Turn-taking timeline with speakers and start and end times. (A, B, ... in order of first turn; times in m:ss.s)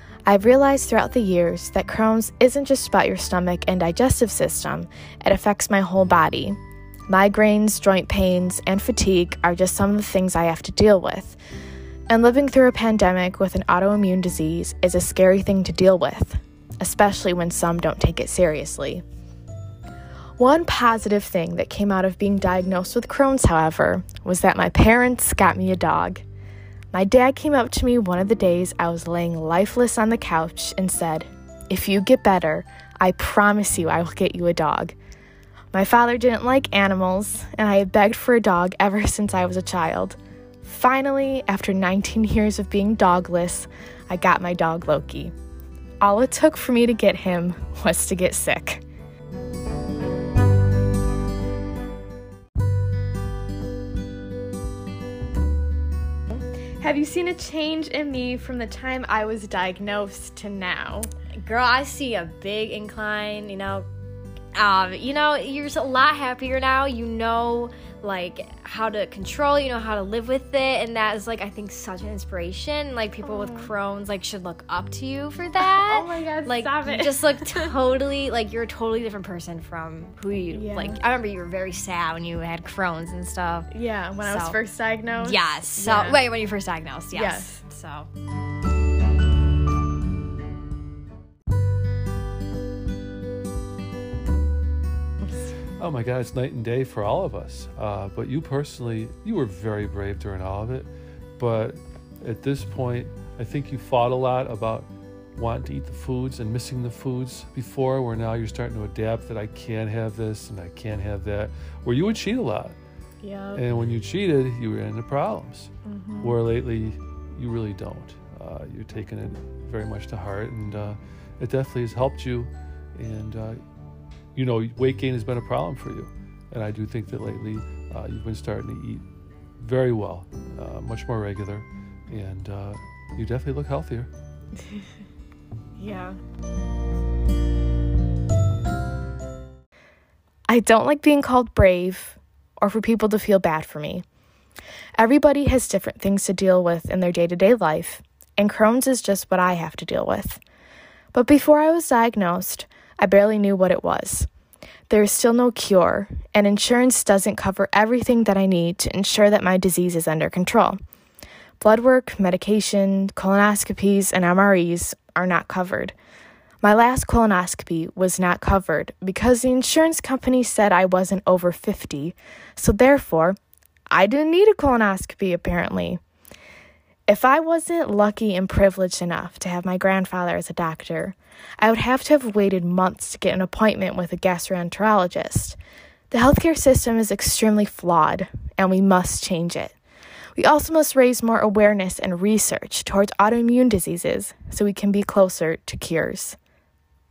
0:00.3-0:06.6 A
0:07.1-0:11.4 A
0:12.1-0:19.0 A
0:20.4-0:26.2 A
0:26.9-0:34.9 A
0:35.7-0:45.3 A
0:46.0-0:48.8 A
0:56.8-1:01.1 A
1:01.4-1:03.8 B
1:04.5-1:23.7 B
1:13.2-1:13.7 A
1:15.6-1:17.7 A
1:20.5-1:21.0 A
1:23.7-1:26.2 A
1:24.3-1:24.6 B
1:25.2-1:28.1 B
1:27.1-1:27.6 A
1:35.8-1:52.8 C
1:53.2-1:53.6 A
1:53.5-2:03.6 C
1:55.8-1:56.4 A
2:04.3-2:09.0 C
2:09.6-2:14.1 C
2:15.8-2:16.2 A
2:20.5-2:24.0 A
2:25.0-2:30.4 A
2:31.1-2:34.3 A
2:34.9-2:40.8 A
2:41.6-2:45.9 A
2:46.6-2:53.4 A
2:53.9-2:56.0 A
2:57.1-3:05.6 A
3:06.1-3:09.7 A
3:10.4-3:16.4 A